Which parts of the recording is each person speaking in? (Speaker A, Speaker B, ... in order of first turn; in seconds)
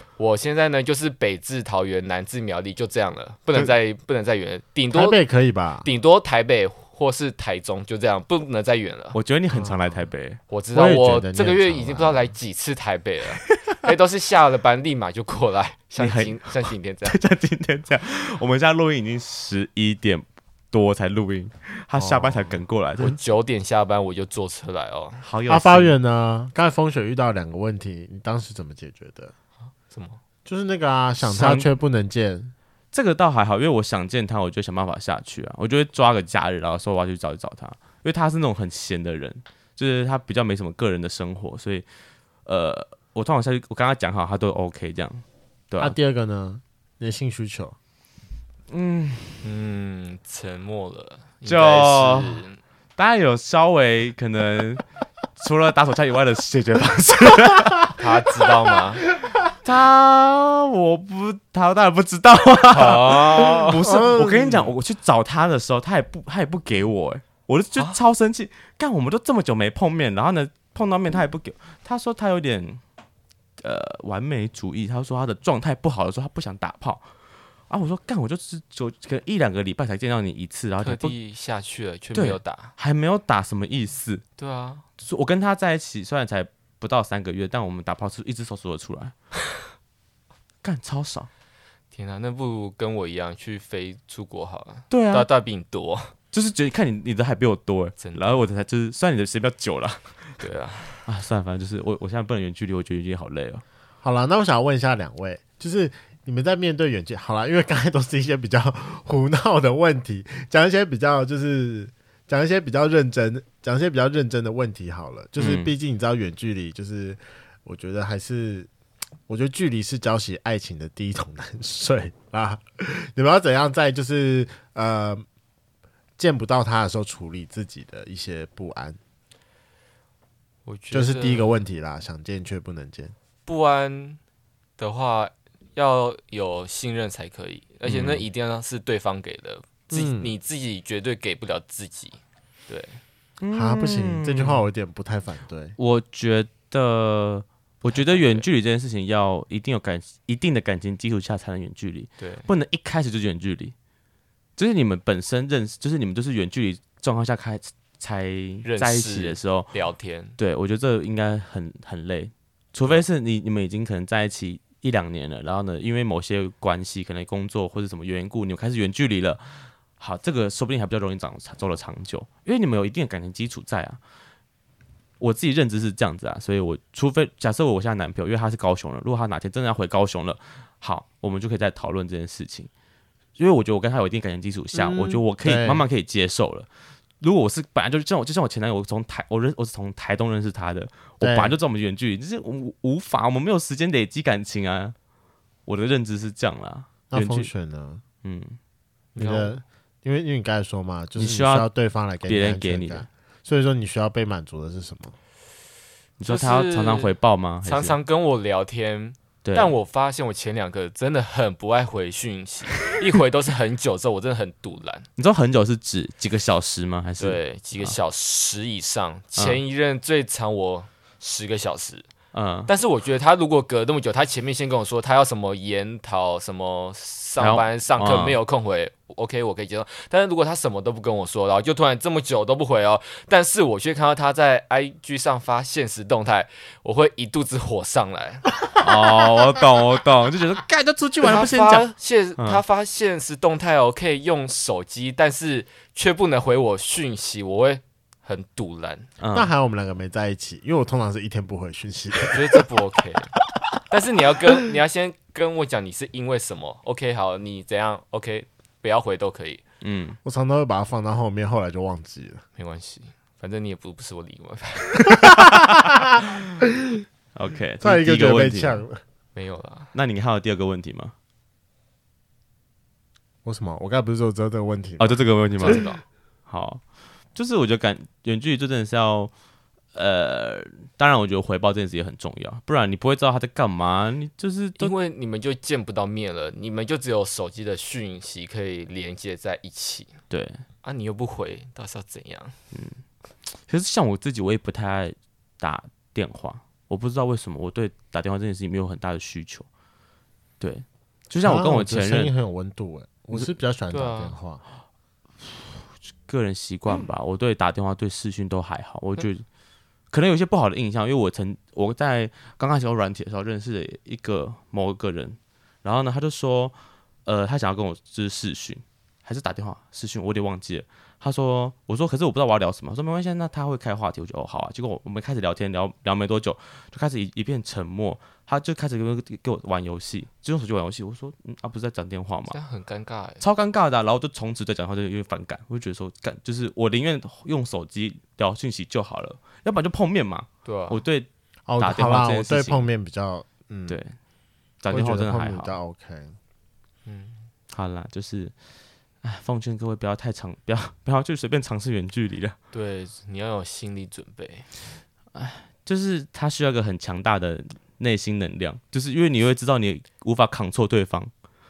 Speaker A: 0.2-5.2, 5.8-9.2, 10.5-17.2, 23.0-25.2, 29.9-30.2, 49.4-52.6, 58.0-59.0, 62.7-63.9, 80.8-82.7, 84.4-84.9, 91.9-96.1, 98.0-98.4, 100.4-101.0, 130.7-131.6, 133.5-134.2, 134.8-143.0, 147.9-148.5, 152.2-152.5, 158.7-160.3, 199.2-199.6, 206.2-207.1, 207.7-215.1, 217.2-222.1, 222.7-238.5, 241.2-249.1, 252.2-253.3, 253.9-259.6, 262.6-265.4, 269.4-269.9, 275.6-276.0, 284.8-290.2, 290.8-292.6, 303.9-304.4, 332.5-333.4, 340.6-341.0, 347.1-347.5, 352.7-354.7
Speaker B: 4.9-5.9, 9.5-10.0, 10.7-12.2, 22.0-22.6, 25.5-29.3, 30.5-32.5, 45.8-47.8, 63.8-64.7, 104.0-118.7, 119.3-125.2, 126.2-129.0, 130.9-133.1, 139.9-140.3, 143.5-145.8, 184.7-185.8, 191.2-191.6, 197.1-198.0, 199.2-205.2, 249.3-252.6, 260.2-262.4, 265.1-266.2, 267.8-269.0, 273.4-275.8, 301.4-304.6, 341.7-344.0, 344.9-346.4
Speaker C: 9.1-10.4, 16.0-23.2, 25.2-26.0, 31.2-31.7, 32.9-41.9, 42.5-46.0, 48.7-49.5, 51.5-52.4, 53.0-54.8, 55.4-58.0, 59.6-72.8, 73.6-77.1, 77.7-81.2, 82.2-84.2, 85.0-89.1, 90.6-91.3, 94.9-95.3, 96.3-100.4, 101.1-103.6, 115.4-115.7, 137.9-138.3, 143.4-144.7, 145.8-153.7, 154.6-159.7, 160.4-174.0, 175.2-182.7, 183.4-186.7, 187.2-194.9, 195.7-197.5, 198.2-198.6, 201.2-201.7, 202.3-203.1, 206.2-208.0, 209.4-209.7, 215.2-217.9, 222.3-222.7, 227.4-228.4, 238.8-242.6, 249.2-249.5, 259.8-260.2, 267.4-268.8, 269.9-271.1, 275.0-275.9, 276.5-276.8, 277.4-279.3, 279.9-284.9, 290.3-290.6, 292.7-293.0, 293.7-299.7, 300.6-302.3, 306.3-309.4, 310.1-316.7, 317.3-332.6, 333.4-341.3, 341.8-342.9, 343.9-344.2, 344.8-345.8, 347.7-348.5, 349.2-352.6, 355.3-361.3